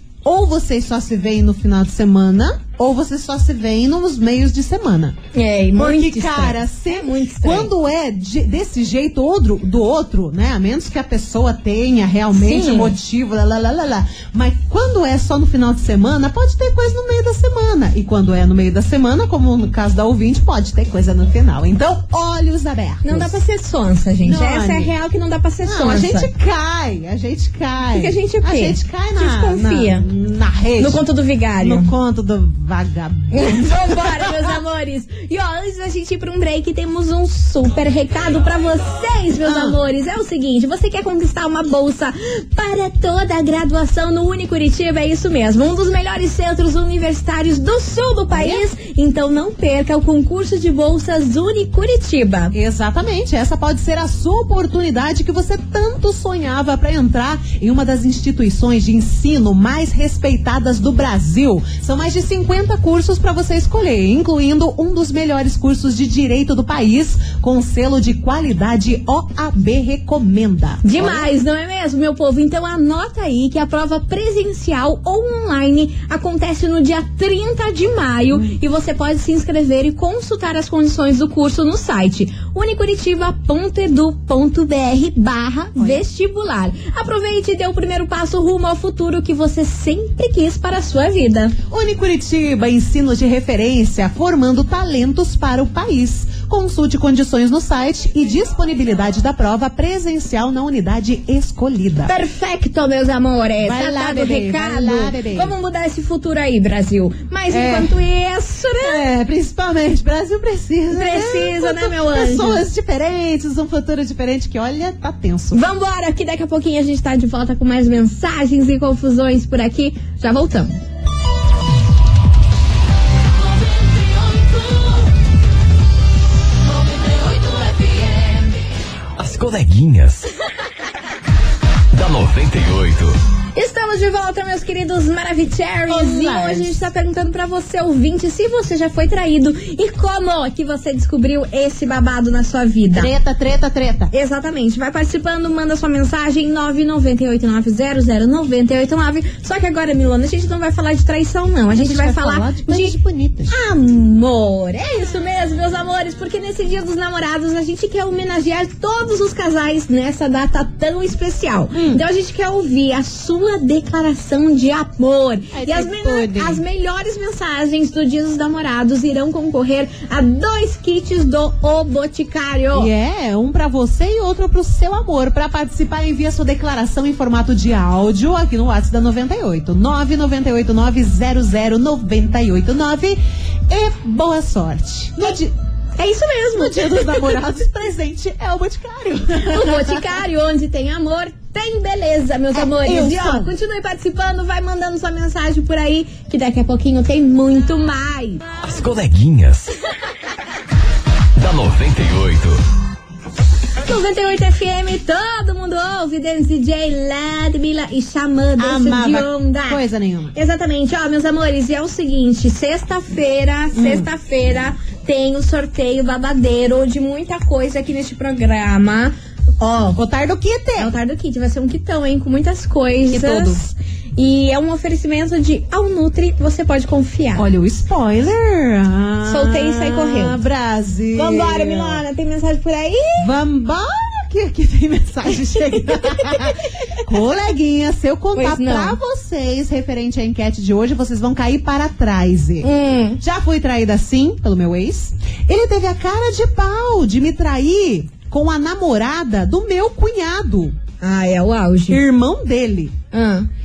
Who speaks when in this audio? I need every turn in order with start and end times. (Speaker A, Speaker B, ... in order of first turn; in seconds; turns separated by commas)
Speaker A: 0.2-5.2, Speaker B: 5.3-7.7, Speaker A: 5.8-23.4, Speaker B: 12.3-12.9, Speaker B: 23.0-26.3, Speaker A: 24.2-24.9, Speaker A: 25.6-31.0, Speaker B: 27.9-30.1, Speaker B: 30.8-31.9, Speaker A: 31.6-34.6, Speaker B: 33.3-52.5, Speaker A: 39.4-39.8, Speaker A: 48.3-48.6, Speaker A: 52.5-71.3, Speaker B: 70.8-91.5, Speaker A: 85.8-86.0, Speaker A: 91.7-102.1, Speaker B: 102.0-109.0, Speaker A: 103.6-105.5, Speaker A: 107.5-108.0, Speaker A: 108.8-115.6, Speaker B: 110.9-112.6, Speaker B: 115.5-120.7, Speaker C: 129.2-130.3, Speaker C: 131.9-133.2, Speaker B: 133.5-143.1, Speaker A: 135.9-136.8, Speaker A: 142.9-144.1, Speaker B: 144.1-152.9, Speaker A: 151.7-153.5, Speaker B: 153.5-172.9, Speaker A: 161.7-162.0, Speaker A: 165.5-166.6, Speaker A: 172.7-185.5, Speaker B: 186.0-187.4, Speaker A: 186.5-190.0, Speaker B: 189.4-198.4, Speaker A: 192.5-193.5, Speaker C: 198.6-199.7, Speaker C: 201.3-202.6, Speaker B: 203.8-209.8, Speaker A: 208.6-210.3, Speaker B: 210.3-220.0, Speaker A: 213.7-214.1, Speaker A: 219.9-220.9, Speaker B: 220.8-227.4, Speaker A: 223.1-223.7, Speaker A: 227.3-232.0, Speaker B: 229.2-230.4, Speaker B: 231.1-233.3, Speaker A: 233.2-242.7, Speaker B: 235.9-236.6, Speaker B: 238.3-239.0, Speaker B: 242.6-243.2, Speaker A: 243.2-250.8, Speaker B: 251.0-252.0, Speaker A: 251.9-252.9, Speaker B: 253.1-253.5